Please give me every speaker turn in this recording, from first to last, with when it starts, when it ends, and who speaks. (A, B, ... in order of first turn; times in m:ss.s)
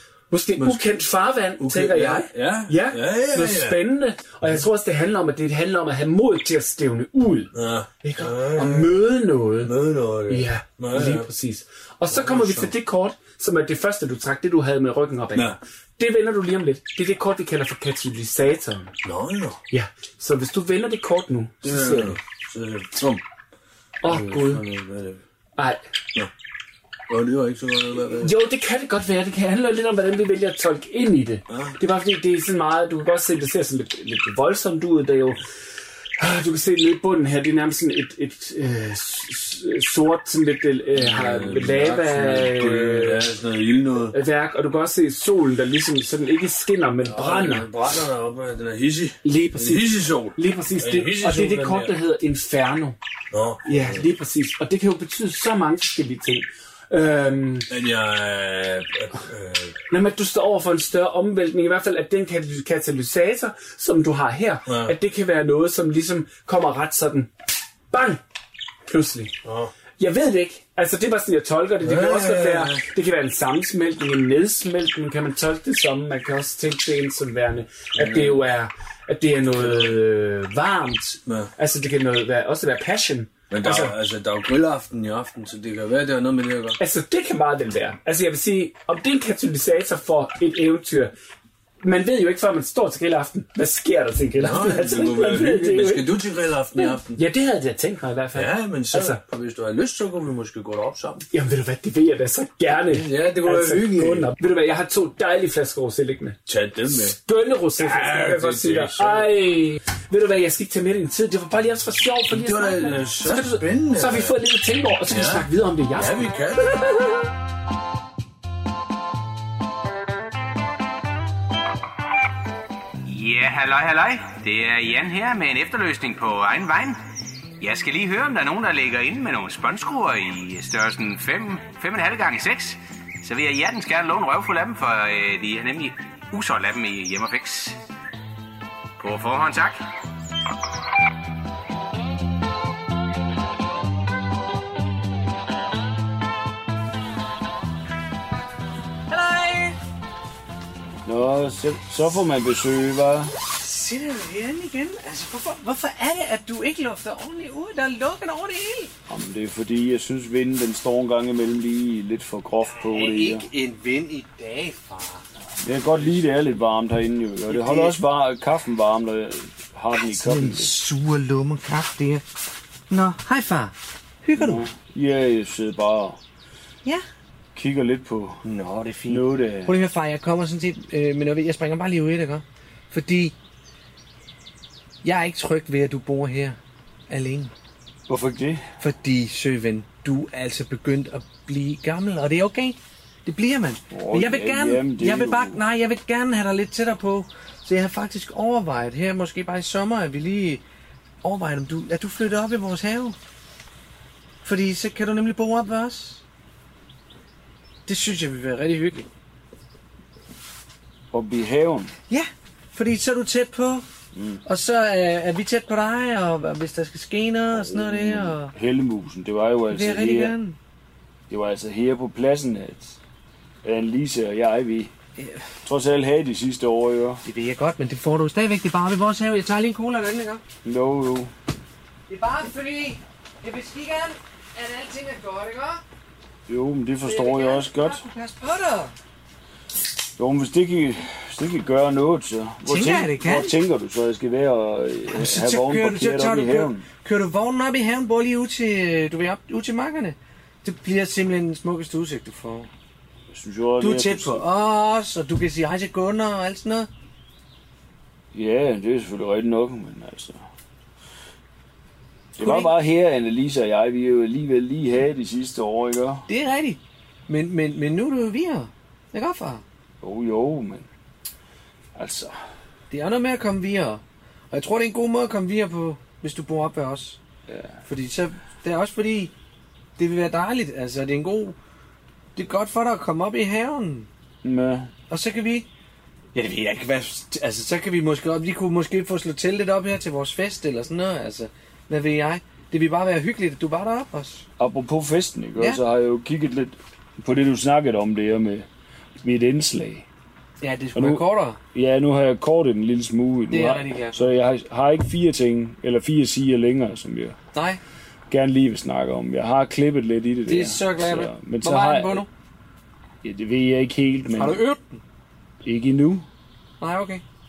0:00.3-0:09.7 A
0:00.6-0:00.8 B
0:01.6-0:03.8 B
0:07.5-0:09.0 B
0:09.6-0:11.3 B
0:10.3-0:18.9 A
0:12.1-0:12.7 B
0:19.0-0:19.6 B
0:19.7-0:22.2 A
0:21.6-0:23.2 B
0:24.0-0:24.6 A
0:24.0-0:25.2 B
0:25.6-0:25.8 A
0:27.1-0:28.3 B
0:28.2-0:35.4 A
0:31.5-0:31.8 B
0:36.2-0:43.3 A
0:40.9-0:44.1 B
0:44.1-0:47.7 A
0:47.0-0:51.9 B
0:49.2-0:53.0 A
0:53.3-0:54.0 B
0:53.6-0:57.7 A
0:57.7-0:59.8 B
0:59.9-1:07.3 A
1:04.7-1:04.9 B
1:07.9-1:08.2 A
1:08.9-1:09.3 A
1:09.4-1:09.7 B
1:10.0-1:23.9 A
1:11.8-1:12.8 B
1:18.0-1:18.4 B
1:19.6-1:20.0 B
1:21.2-1:21.5 B
1:23.5-1:26.8 B
1:26.8-1:31.1 A
1:31.8-1:36.1 A
1:34.4-1:37.2 B
1:36.7-1:39.2 A
1:38.3-1:41.2 B
1:41.3-1:46.4 A
1:42.8-1:44.3 B
1:46.5-1:47.2 B
1:46.9-1:57.2 A
1:47.8-1:49.3 B
1:52.3-1:54.4 B
1:55.1-1:56.8 B
2:03.0-2:07.0 C
2:07.6-2:17.8 C
2:19.0-2:19.8 C
2:29.1-2:29.8 D
2:31.0-2:33.3 E
2:33.6-2:38.9 D
2:39.1-2:43.5 E
2:42.9-2:45.2 D
2:45.6-2:50.8 E
2:47.5-2:48.0 D
2:49.9-2:52.2 D
2:52.9-2:54.6 D
2:54.3-2:56.2 E
2:57.5-2:58.4 E
2:58.4-3:03.3 D
2:59.1-2:59.8 E
3:05.0-3:06.6 D
3:07.1-3:07.5 D
3:08.1-3:08.7 E
3:08.8-3:20.6 D
3:13.9-3:15.6 E
3:21.2-3:23.2 D
3:24.4-3:26.2 D
3:27.8-3:29.0 D
3:31.1-3:31.9 E
3:32.1-3:33.8 D
3:34.1-3:34.4 E
3:34.4-3:38.5 D
3:37.5-3:40.4 E
3:39.7-3:40.6 D
3:41.3-3:43.0 E
3:43.6-3:44.9 E
3:45.6-3:47.2 E
3:47.2-3:50.4 D
3:50.6-3:51.3 E
3:52.1-3:55.8 D
3:56.4-3:58.0 E
3:57.0-3:58.9 D
4:00.2-4:06.8 E
4:02.6-4:03.5 D
4:05.1-4:12.7 D
4:13.3-4:14.5 E
4:13.8-4:16.9 D
4:18.3-4:20.4 E
4:22.4-4:26.2 E
4:22.4-4:22.7 D
4:26.3-4:29.6 D
4:30.0-4:30.9 E
4:31.9-4:32.3 E
4:32.9-4:37.2 D
4:37.5-4:37.8 E
4:37.9-4:39.3 D
4:40.0-4:41.6 D
4:42.4-4:44.1 D
4:44.4-4:44.9 E
4:45.1-4:45.6 D
4:46.3-4:54.4 D
4:54.6-4:58.7 E
4:59.2-5:00.0 E
5:00.6-5:01.6 D
5:00.9-5:07.4 E
5:03.5-5:04.2 D
5:07.5-5:07.8 D
5:08.3-5:12.3 E
5:10.4-5:12.2 D
5:13.2-5:14.7 E
5:14.3-5:15.0 D
5:15.6-5:16.2 E
5:16.8-5:17.2 D